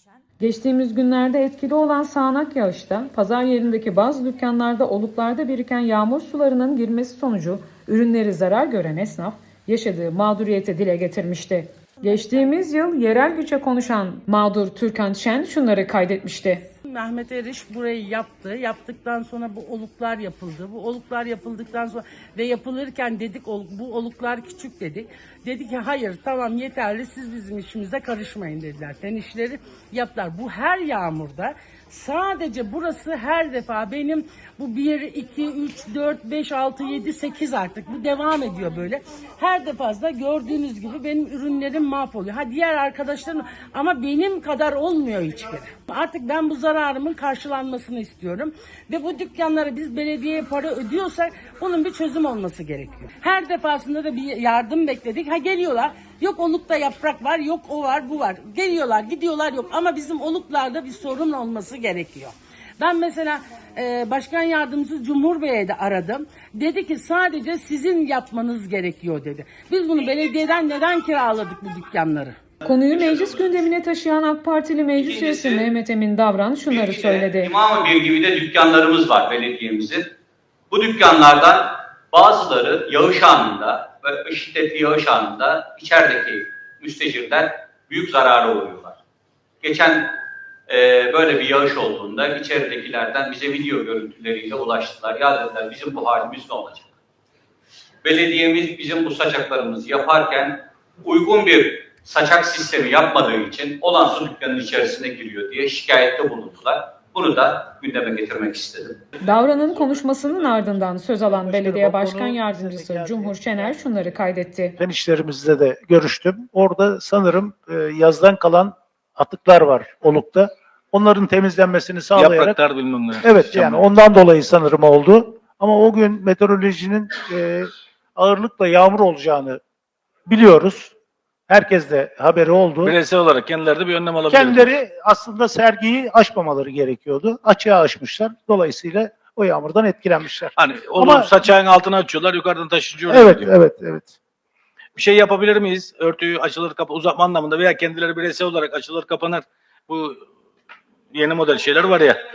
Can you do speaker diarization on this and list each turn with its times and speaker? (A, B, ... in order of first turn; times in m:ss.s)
0:00.4-0:16.6 A
0:16.8-1:12.4 B
1:12.6-1:17.5 A
1:15.0-1:15.7 C
1:16.6-1:20.0 C
1:20.7-1:29.0 C
1:29.6-1:30.1 C
1:30.7-1:36.9 C
1:38.0-1:49.1 C
1:49.2-1:54.8 A
1:51.3-1:53.8 D
1:54.8-2:02.6 D
2:02.1-2:03.8 E
2:03.2-2:09.6 D
2:10.3-2:10.9 D
2:11.5-2:13.0 D
2:12.8-2:14.7 E
2:14.3-2:21.3 D
2:20.6-2:23.5 E
2:23.1-2:24.1 D
2:25.0-2:30.2 E
2:31.1-2:32.2 E